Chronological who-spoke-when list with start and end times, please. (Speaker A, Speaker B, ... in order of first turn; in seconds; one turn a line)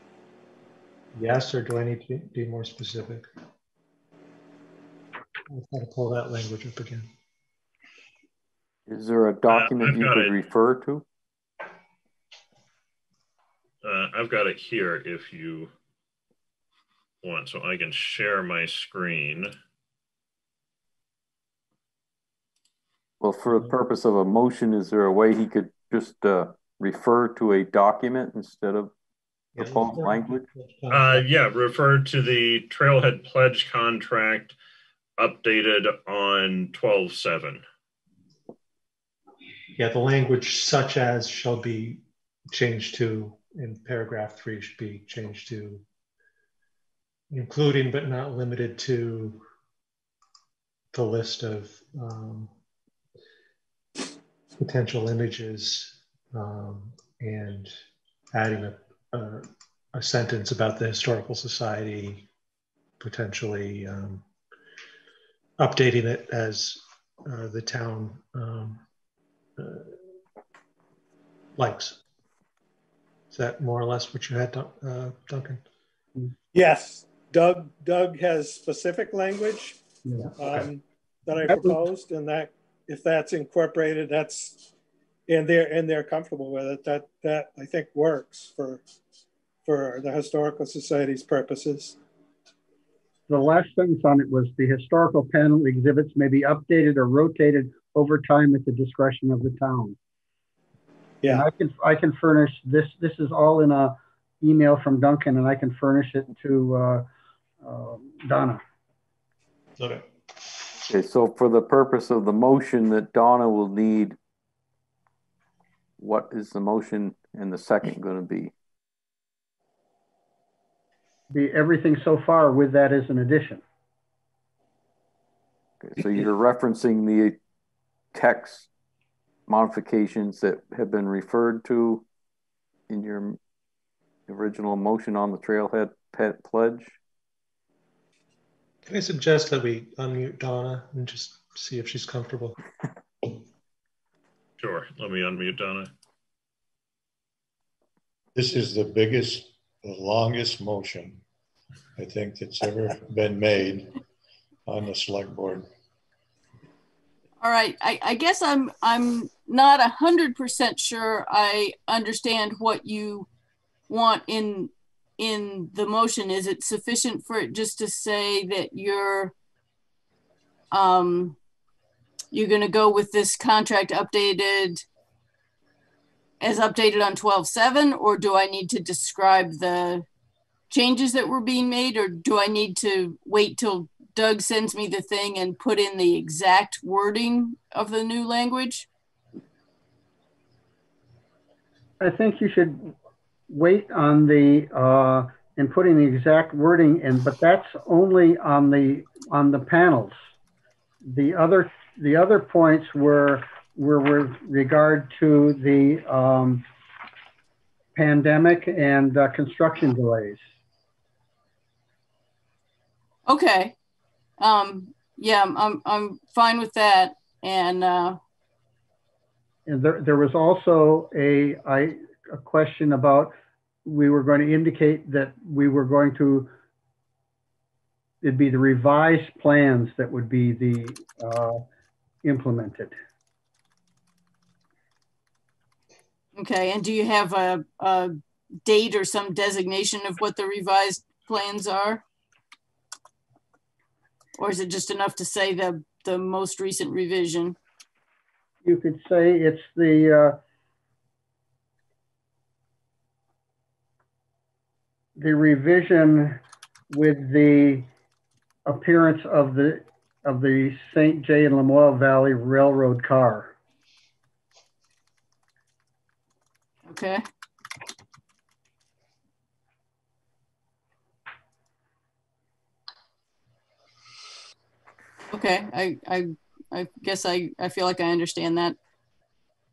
Speaker A: 1.1-3.3
Speaker A: 5.5-7.1
Speaker B: 8.9-11.0
Speaker C: 9.5-10.3
Speaker C: 13.8-15.7
Speaker C: 17.2-19.5
Speaker B: 23.2-28.9
Speaker A: 29.6-31.3
Speaker B: 29.6-30.4
Speaker C: 30.9-34.5
Speaker C: 35.2-37.6
Speaker A: 39.8-45.8
Speaker A: 47.3-49.4
Speaker A: 50.9-52.5
Speaker A: 54.6-57.7
Speaker A: 58.3-62.3
Speaker A: 63.0-64.2
Speaker A: 65.6-68.8
Speaker A: 69.6-69.9
Speaker A: 71.5-72.0
Speaker A: 73.3-75.6
Speaker D: 76.5-79.8
Speaker E: 80.0-80.3
Speaker D: 80.4-84.7
Speaker E: 81.5-81.8
Speaker D: 85.3-88.8
Speaker D: 89.6-92.0
Speaker E: 93.3-100.0
Speaker E: 101.2-107.0
Speaker E: 107.6-108.6
Speaker A: 109.8-110.1
Speaker B: 110.8-114.2
Speaker B: 116.0-118.5
Speaker E: 121.3-123.6
Speaker B: 125.8-127.4
Speaker B: 128.1-128.7
Speaker B: 129.5-132.0
Speaker B: 132.9-133.4
Speaker B: 134.3-137.0
Speaker A: 138.8-142.6
Speaker C: 144.6-145.9
Speaker F: 148.3-151.2
Speaker F: 151.9-154.0
Speaker F: 154.7-155.7
Speaker G: 157.4-163.3
Speaker G: 163.9-169.3
Speaker G: 170.7-171.4
Speaker G: 172.3-174.8
Speaker G: 176.4-180.1
Speaker G: 180.7-188.9
Speaker E: 192.0-192.9
Speaker E: 193.5-200.2
Speaker E: 201.1-206.6
Speaker E: 207.9-210.4
Speaker G: 213.2-213.7
Speaker G: 214.4-218.2
Speaker E: 219.7-223.3
Speaker E: 223.8-226.5
Speaker E: 228.2-231.6
Speaker E: 232.2-232.9
Speaker G: 236.3-242.0
Speaker G: 244.4-247.6
Speaker E: 248.6-250.4
Speaker E: 255.2-256.4
Speaker E: 256.9-257.9
Speaker E: 258.7-263.5
Speaker G: 266.9-267.2
Speaker G: 275.3-278.8